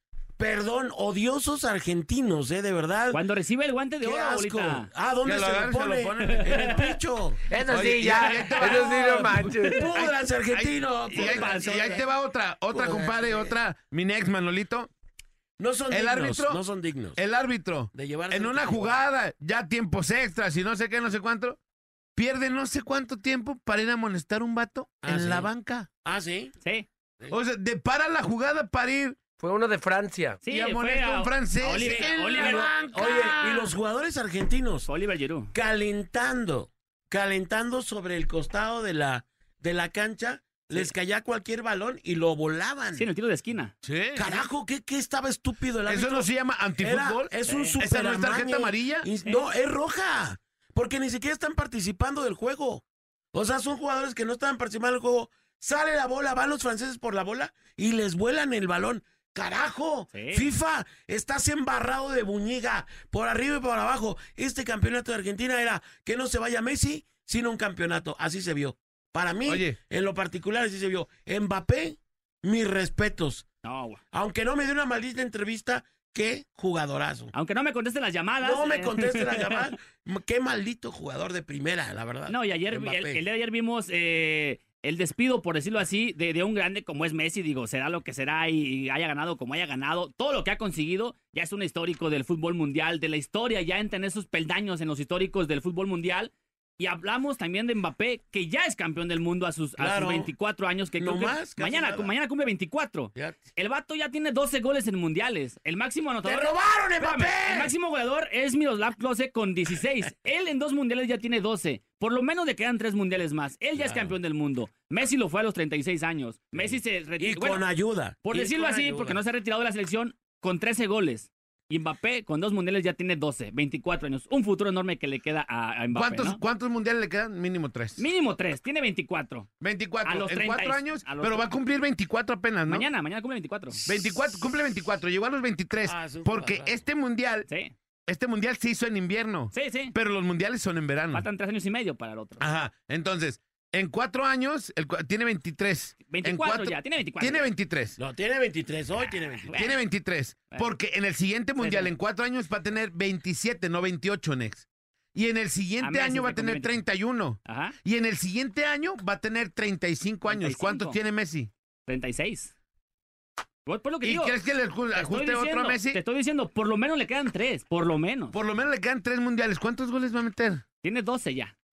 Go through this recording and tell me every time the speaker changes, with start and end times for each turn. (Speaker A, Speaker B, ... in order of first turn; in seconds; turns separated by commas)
Speaker A: 0.4-3.2, Speaker B: 3.1-4.9, Speaker A: 4.0-7.4, Speaker C: 5.2-6.8, Speaker B: 6.4-6.8, Speaker D: 7.5-9.9, Speaker C: 7.7-14.9, Speaker A: 9.7-12.1, Speaker B: 11.1-12.0, Speaker A: 12.7-13.5, Speaker A: 15.6-17.2, Speaker C: 15.9-16.6, Speaker C: 17.1-21.6, Speaker A: 17.9-19.0, Speaker C: 22.1-25.9, Speaker A: 25.0-25.5, Speaker A: 26.0-26.5, Speaker C: 27.3-29.2, Speaker D: 29.4-30.4, Speaker B: 30.4-32.7, Speaker C: 30.5-33.7, Speaker A: 31.7-34.9, Speaker B: 34.9-35.5, Speaker A: 35.5-43.1, Speaker B: 42.9-43.7, Speaker C: 43.8-44.5, Speaker A: 44.1-73.5, Speaker C: 45.9-49.1, Speaker B: 47.5-47.8, Speaker B: 60.1-60.5, Speaker C: 69.5-69.8, Speaker B: 73.6-74.0, Speaker A: 74.1-77.3, Speaker B: 77.3-79.7, Speaker A: 78.4-83.2, Speaker B: 82.3-117.6, Speaker A: 99.8-100.3, Speaker A: 101.0-102.1, Speaker A: 106.2-107.7, Speaker A: 113.8-114.1, Speaker A: 116.5-119.2, Speaker B: 118.2-126.4, Speaker C: 125.9-128.0, Speaker B: 128.0-129.5, Speaker C: 129.6-132.9, Speaker B: 130.0-131.5, Speaker B: 132.7-133.8, Speaker C: 133.8-137.5, Speaker A: 135.8-136.8, Speaker B: 137.5-137.7, Speaker C: 138.1-141.2, Speaker B: 139.5-139.9, Speaker B: 141.1-142.4, Speaker C: 142.4-148.0, Speaker B: 146.1-147.5, Speaker A: 148.0-149.6, Speaker B: 149.0-149.8, Speaker C: 149.5-161.5, Speaker B: 151.6-151.9, Speaker B: 155.8-156.8, Speaker B: 157.4-157.7, Speaker B: 160.3-161.0, Speaker B: 161.9-162.5, Speaker B: 163.7-164.3, Speaker C: 164.0-166.0, Speaker B: 164.9-168.3, Speaker C: 168.3-170.6, Speaker B: 170.8-171.5